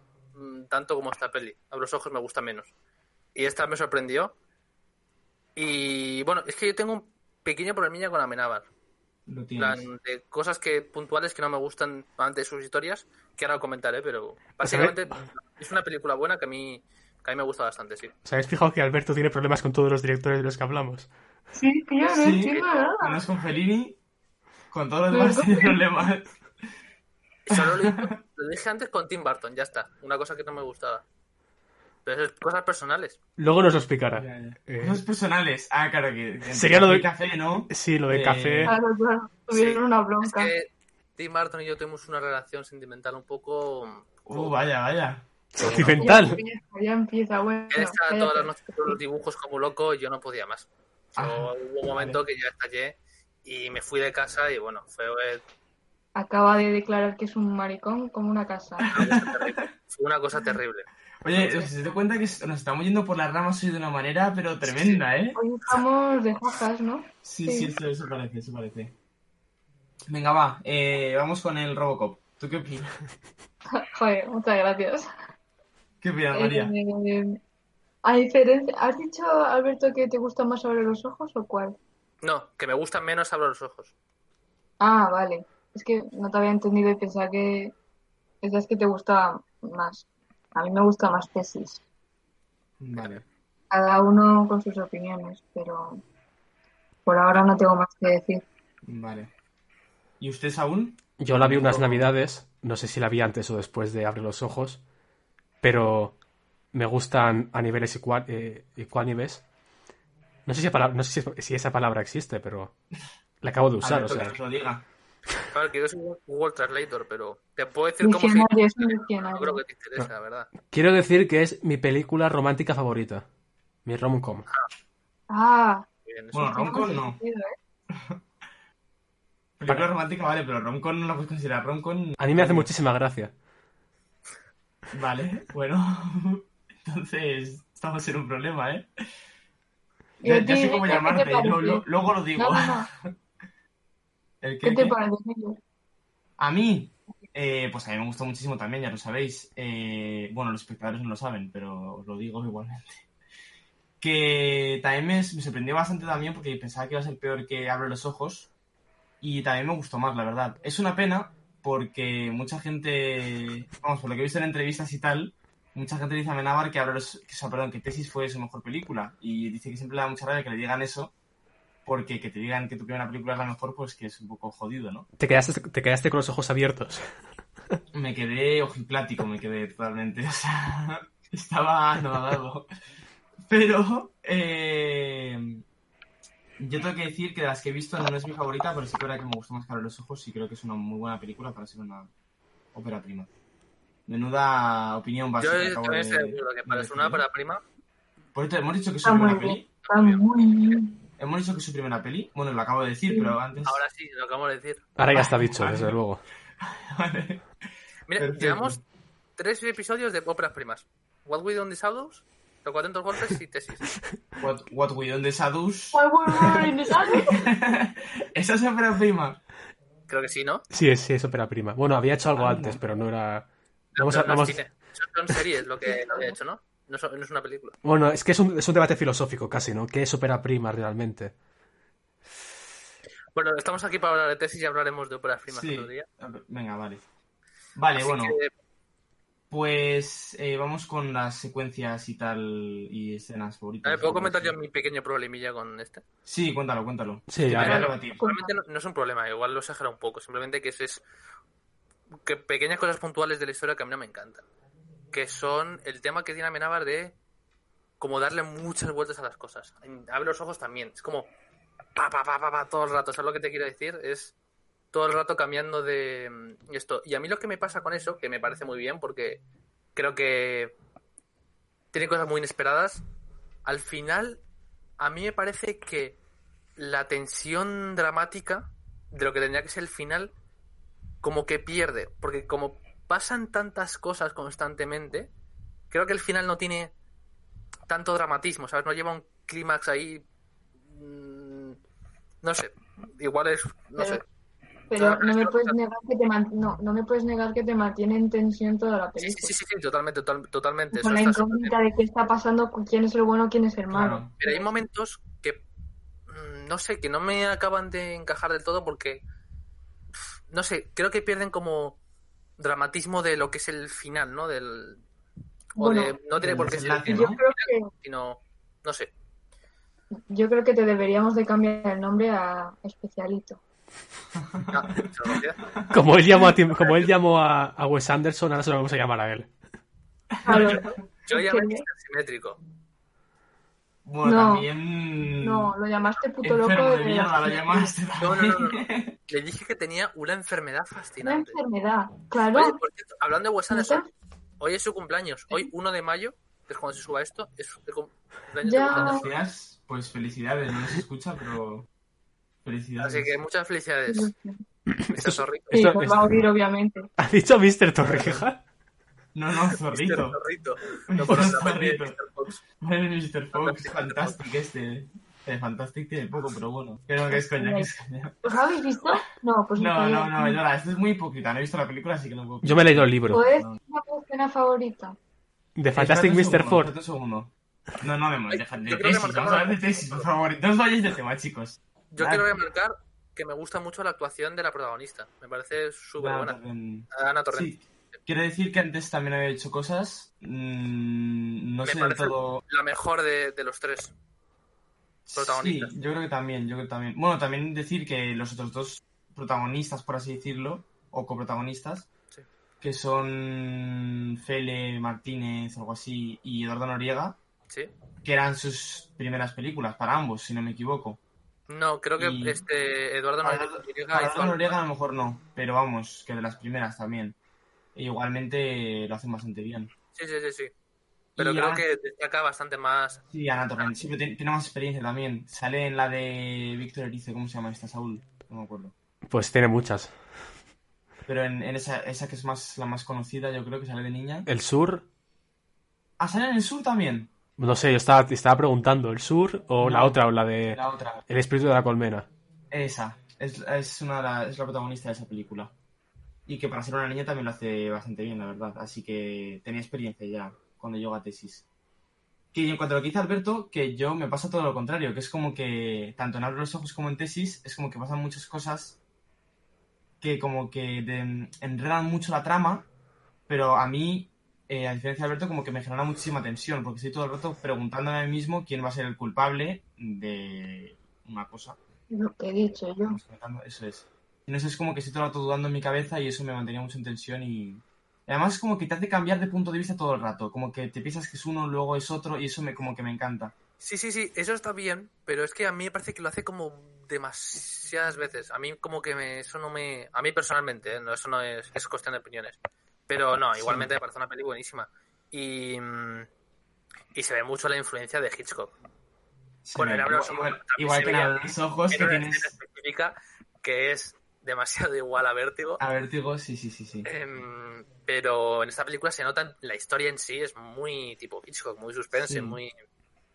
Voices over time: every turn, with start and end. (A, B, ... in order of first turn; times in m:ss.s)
0:00.3-0:02.7 A
0:03.3-0:04.3 A
0:05.6-0:08.7 A
0:09.3-0:09.9 B
0:09.6-0:18.1 A
0:14.6-0:14.9 C
0:18.2-0:21.1 C
0:21.5-0:23.2 D
0:22.1-0:24.0 B
0:22.5-0:22.8 A
0:24.7-0:26.3 B
0:25.1-0:25.8 D
0:27.4-0:31.0 A
0:27.5-0:28.1 B
0:32.0-0:33.2 A
0:33.4-0:35.0 C
0:34.1-0:38.7 B
0:36.5-0:37.0 C
0:37.7-0:38.7 C
0:38.6-0:40.5 D
0:39.5-0:44.6 A
0:44.3-0:46.1 B
0:45.5-0:46.4 C
0:45.8-0:49.0 D
0:47.7-0:55.4 A
0:51.2-0:52.2 B
0:56.1-0:59.0 D
0:58.8-0:59.6 B
0:58.9-1:01.7 A
1:01.2-1:05.4 B
1:04.6-1:05.0 A
1:05.3-1:07.7 D
1:07.2-1:08.9 B
1:10.1-1:12.9 B
1:13.8-1:15.1 D
1:16.0-1:16.7 B
1:16.3-1:17.4 D
1:18.0-1:21.8 D
1:22.2-1:23.9 A
1:24.8-1:27.7 D
1:28.4-1:31.8 D
1:32.8-1:33.2 B
1:32.9-1:33.2 A
1:33.7-1:36.0 D
1:37.0-1:38.4 D
1:38.8-1:39.3 B
1:40.2-1:42.1 B
1:41.2-1:44.8 C
1:45.6-1:46.1 C
1:46.7-1:49.4 C
1:50.4-1:52.7 C
1:53.4-1:54.3 C
1:53.8-1:54.8 B
1:54.0-1:54.4 A
1:55.5-2:00.5 A
1:58.0-1:59.6 D
2:00.6-2:03.2 C
2:03.8-2:04.4 C
2:05.3-2:05.8 D
2:06.0-2:06.8 A
2:06.3-2:07.2 B
2:06.4-2:07.6 D
2:07.9-2:08.2 B
2:09.6-2:12.7 B
2:12.2-2:13.3 C
2:14.9-2:18.9 B
2:20.2-2:21.8 D
2:20.2-2:22.9 B
2:22.4-2:22.9 D
2:24.4-2:25.0 B
2:24.6-2:25.6 D
2:26.4-2:33.0 B
2:34.0-2:38.5 B
2:39.2-2:51.1 B
2:51.8-2:55.1 B
2:55.2-2:57.1 C
2:57.9-3:02.6 B
3:03.4-3:05.6 B
3:06.6-3:12.1 B
3:12.7-3:13.3 B
3:14.0-3:17.2 B
3:15.4-3:17.6 A
3:18.3-3:19.6 B
3:19.0-3:21.0 D
3:19.8-3:20.8 A
3:21.2-3:23.8 B
3:23.1-3:23.3 D
3:23.6-3:24.8 A
3:25.0-3:26.2 C
3:25.1-3:26.0 B
3:26.6-3:27.4 B
3:28.1-3:28.8 A
3:28.2-3:28.8 B
3:29.4-3:33.9 A
3:34.4-3:39.4 B
3:35.9-3:37.5 D
3:40.1-3:40.6 A
3:40.7-3:43.5 C
3:42.4-3:42.8 B
3:43.9-3:47.8 A
3:44.0-3:44.6 C
3:45.8-3:46.4 D
3:47.8-3:51.3 C
3:53.3-3:56.0 A
3:55.5-3:57.0 B
3:57.7-3:58.4 B
3:58.0-3:58.5 A
3:59.5-4:04.5 B
4:03.8-4:06.0 A
4:06.2-4:08.2 B
4:07.3-4:07.8 C
4:07.4-4:11.0 A
4:07.7-4:08.5 D
4:12.2-4:14.4 A
4:15.1-4:17.2 A
4:18.0-4:21.3 A
4:22.0-4:24.3 A
4:24.9-4:29.4 A
4:29.9-4:30.7 A
4:31.9-4:33.0 A
4:33.6-4:34.4 A
4:35.0-4:36.2 A
4:36.8-4:40.3 A
4:41.2-4:45.3 A
4:45.9-4:46.9 A
4:47.9-4:50.2 A
4:50.9-4:51.8 A
4:52.4-4:54.2 A
4:54.9-4:59.5 D
4:54.9-4:55.8 A
4:59.2-5:01.8 A
5:00.9-5:04.6 D
5:03.9-5:04.3 B
5:04.4-5:05.6 A
5:06.3-5:09.2 A
5:10.5-5:12.0 A
5:12.6-5:15.0 A
5:15.8-5:16.1 D
5:15.8-5:19.1 A
5:16.4-5:17.4 B
5:17.1-5:17.9 D
5:20.3-5:23.6 D
5:24.3-5:25.0 B
5:24.7-5:25.6 A
5:25.7-5:26.0 B
5:25.9-5:29.5 C
5:30.3-5:31.0 B
5:30.4-5:31.8 D
5:31.3-5:32.6 A
5:34.0-5:35.7 B
5:34.2-5:34.7 D
5:35.4-5:37.9 D
5:36.4-5:39.1 B
5:38.2-5:41.6 A
5:41.2-5:42.8 D
5:42.5-5:44.1 A
5:43.7-5:44.1 D
5:44.6-5:49.3 A
5:48.6-5:49.2 D
5:48.9-5:51.9 B
5:52.6-5:53.3 B
5:53.0-5:54.3 A
5:54.1-5:54.6 D
5:54.9-5:56.2 C
5:55.1-5:55.7 A
5:55.7-5:57.1 D
5:57.2-5:58.6 C
5:58.0-5:58.4 B
5:59.3-6:00.4 B
5:59.7-6:02.6 A
6:01.1-6:02.2 B
6:02.8-6:08.4 B
6:03.5-6:04.4 A
6:07.3-6:07.9 D
6:08.4-6:10.6 D
6:09.8-6:13.8 B
6:12.6-6:13.4 C
6:13.3-6:15.2 D
6:15.8-6:16.9 C
6:15.9-6:22.5 B
6:18.5-6:20.3 A
6:22.1-6:26.6 A
6:26.2-6:32.6 B
6:27.1-6:27.8 A
6:31.8-6:34.1 A
6:35.3-6:42.1 B
6:35.4-6:35.9 A
6:42.8-6:47.4 B
6:48.2-6:51.2 B
6:51.7-6:54.8 A
6:52.2-6:52.6 B
6:53.4-6:57.4 B
6:57.9-6:59.9 B
7:00.1-7:00.7 A
7:01.4-7:01.8 B
7:01.4-7:03.2 A
7:03.3-7:08.9 B
7:09.3-7:10.1 C
7:11.3-7:14.5 B
7:14.5-7:15.0 C
7:16.2-7:17.3 B
7:17.6-7:22.3 C
7:19.8-7:21.2 B
7:22.7-7:25.7 B
7:26.4-7:31.6 B
7:32.5-7:39.0 B
7:40.2-7:42.9 B
7:43.5-7:51.8 B
7:52.1-7:53.2 D
7:53.0-8:03.5 B
8:03.8-8:16.3 A
8:13.5-8:13.9 B
8:17.1-8:18.7 A
8:19.6-8:22.5 B
8:19.8-8:25.8 A
8:25.8-8:27.1 B
8:27.0-8:32.7 A
8:32.1-8:32.6 B